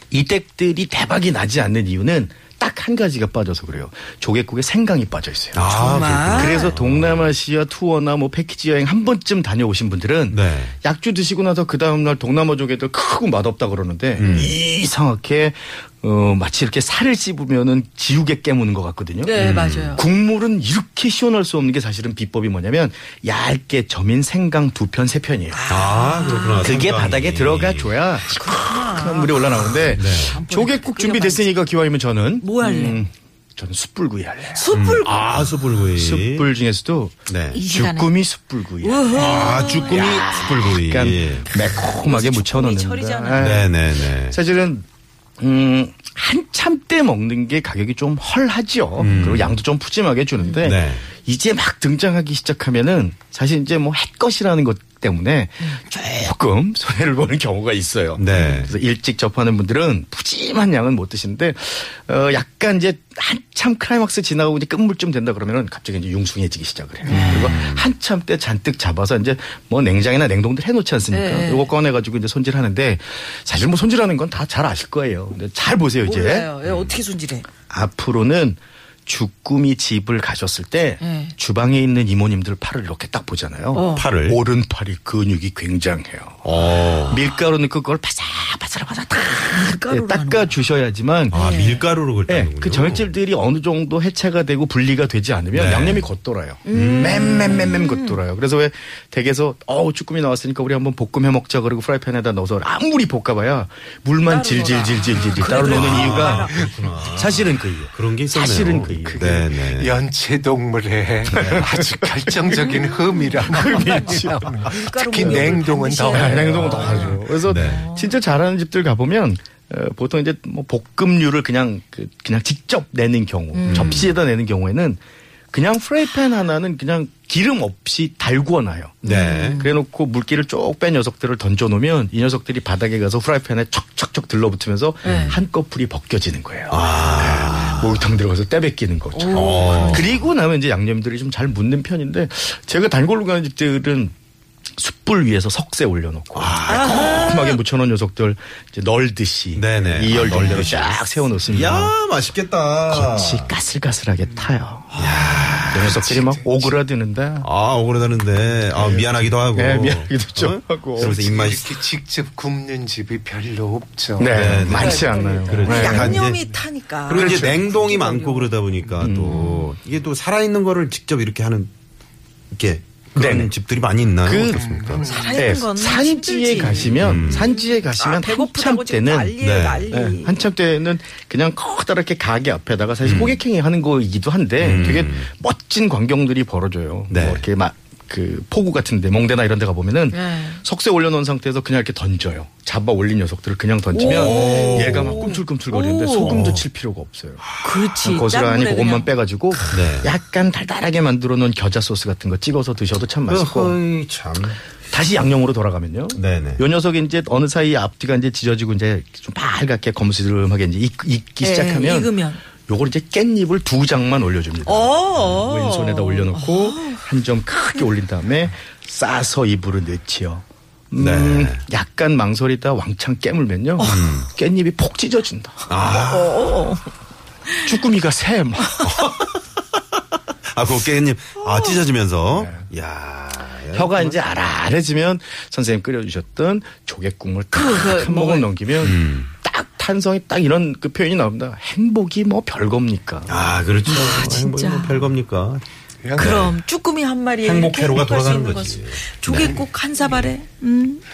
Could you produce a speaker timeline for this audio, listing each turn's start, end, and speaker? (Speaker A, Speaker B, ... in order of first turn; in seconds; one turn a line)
Speaker A: 0.1-25.6
Speaker B: 5.5-7.3
Speaker C: 5.6-6.7
Speaker B: 10.3-10.7
Speaker B: 14.2-14.5
Speaker C: 19.2-20.0
Speaker B: 19.4-19.9
Speaker C: 25.5-26.9
Speaker B: 25.7-27.9
Speaker A: 26.6-34.7
Speaker C: 28.3-31.5
Speaker B: 29.9-30.4
Speaker C: 32.4-33.0
Speaker C: 34.5-35.3
Speaker B: 34.7-36.5
Speaker A: 35.4-44.8
Speaker B: 37.3-37.6
Speaker C: 37.5-38.1
Speaker C: 38.8-40.2
Speaker B: 39.1-41.6
Speaker C: 41.6-43.6
Speaker B: 43.4-44.4
Speaker A: 45.4-76.5
Speaker C: 49.0-49.3
Speaker B: 49.0-49.5
Speaker C: 50.4-50.7
Speaker B: 50.6-51.1
Speaker B: 58.2-58.7
Speaker C: 58.3-58.7
Speaker C: 67.1-67.6
Speaker B: 67.1-67.8
Speaker C: 71.1-71.7
Speaker C: 76.0-77.5
Speaker B: 76.6-77.0
Speaker A: 77.7-91.4
Speaker C: 81.0-81.3
Speaker C: 83.7-84.1
Speaker B: 83.9-84.4
Speaker B: 86.4-87.2
Speaker C: 89.5-90.5
Speaker C: 91.3-91.8
Speaker B: 91.3-93.1
Speaker A: 92.3-109.6
Speaker B: 95.5-96.0
Speaker C: 96.7-98.2
Speaker B: 96.7-97.5
Speaker C: 104.2-106.7
Speaker B: 105.4-109.9
Speaker D: 109.8-117.2
Speaker A: 111.3-112.7
Speaker B: 111.3-111.7
Speaker C: 112.5-118.2
Speaker A: 113.4-125.0
Speaker B: 117.5-117.8
Speaker C: 123.5-124.1
Speaker B: 123.7-124.1
Speaker A: 125.5-144.1
Speaker C: 129.0-129.7
Speaker B: 129.0-129.6
Speaker B: 135.0-135.3
Speaker C: 135.0-135.4
Speaker B: 136.7-138.0
Speaker C: 139.1-140.1
Speaker B: 139.3-140.2
Speaker A: 144.8-151.9
Speaker B: 146.3-147.2
Speaker C: 146.7-147.6
Speaker B: 149.5-153.5
Speaker A: 152.9-157.5
Speaker B: 155.0-156.1
Speaker D: 155.0-156.7
Speaker B: 157.4-161.8
Speaker A: 158.7-161.2
Speaker D: 161.0-166.3
Speaker A: 164.2-166.3
Speaker B: 164.3-166.4
Speaker C: 165.7-168.6
Speaker B: 167.1-171.7
Speaker A: 167.1-167.6
Speaker A: 169.0-169.3
Speaker C: 169.2-169.7
Speaker B: 172.5-175.0
Speaker A: 173.2-173.5
Speaker A: 174.2-174.7
Speaker D: 174.5-175.4
Speaker C: 175.0-180.4
Speaker A: 175.3-203.8
Speaker B: 176.7-177.4
Speaker B: 179.4-179.9
Speaker B: 183.0-183.4
Speaker B: 184.6-185.3
Speaker C: 184.7-185.0
Speaker B: 187.1-187.4
Speaker C: 190.1-190.6
Speaker C: 193.9-196.4
Speaker B: 194.0-195.2
Speaker B: 196.2-196.7
Speaker C: 197.6-199.1
Speaker B: 199.7-200.1
Speaker B: 203.3-204.6
Speaker A: 204.9-225.7
Speaker B: 206.1-206.6
Speaker C: 211.4-212.4
Speaker C: 214.7-217.0
Speaker C: 217.6-217.8
Speaker B: 221.0-221.6
Speaker C: 223.8-224.2
Speaker B: 223.9-224.3
Speaker C: 225.7-226.9
Speaker B: 225.7-226.4
Speaker A: 227.6-228.9
Speaker B: 228.8-229.4
Speaker B: 230.5-234.2
Speaker C: 231.4-231.8
Speaker A: 232.3-232.6
Speaker A: 233.7-243.3
Speaker C: 237.5-238.5
Speaker B: 238.8-239.3
Speaker B: 243.3-245.6
Speaker C: 243.8-245.1
Speaker D: 246.0-246.5
Speaker B: 246.2-246.6
Speaker C: 246.2-251.0
Speaker B: 247.4-249.6
Speaker D: 249.4-250.3